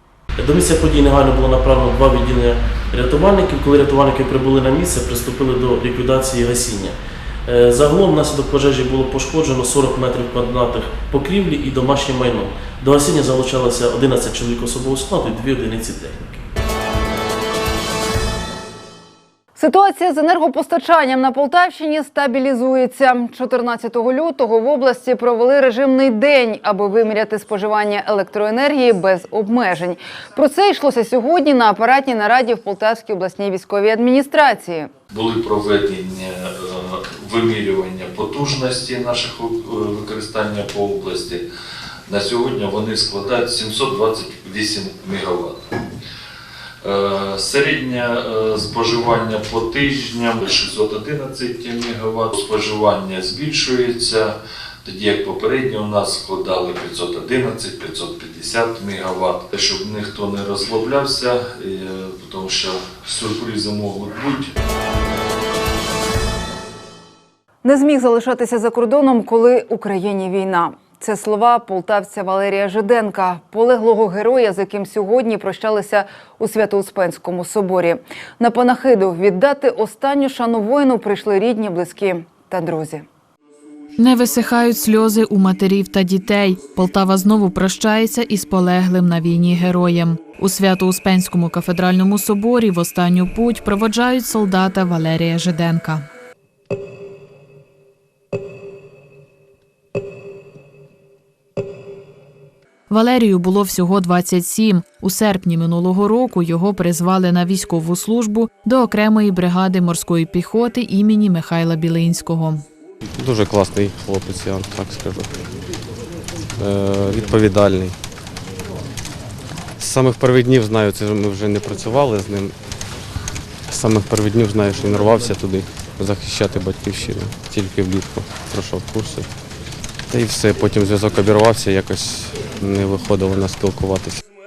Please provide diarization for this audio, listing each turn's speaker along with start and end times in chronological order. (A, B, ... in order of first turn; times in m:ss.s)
0:00.4-0:16.4 A
0:19.6-0:34.9 B
0:35.1-0:41.4 C
0:42.1-0:45.6 C
0:46.8-0:54.3 C
0:54.8-1:04.5 C
1:07.6-1:23.0 B
1:24.0-1:36.0 D
1:42.9-1:52.6 D
1:53.1-1:55.4 E
1:56.6-1:58.0 E
1:59.8-2:02.6 E
2:03.7-2:09.3 E
2:10.1-2:14.2 E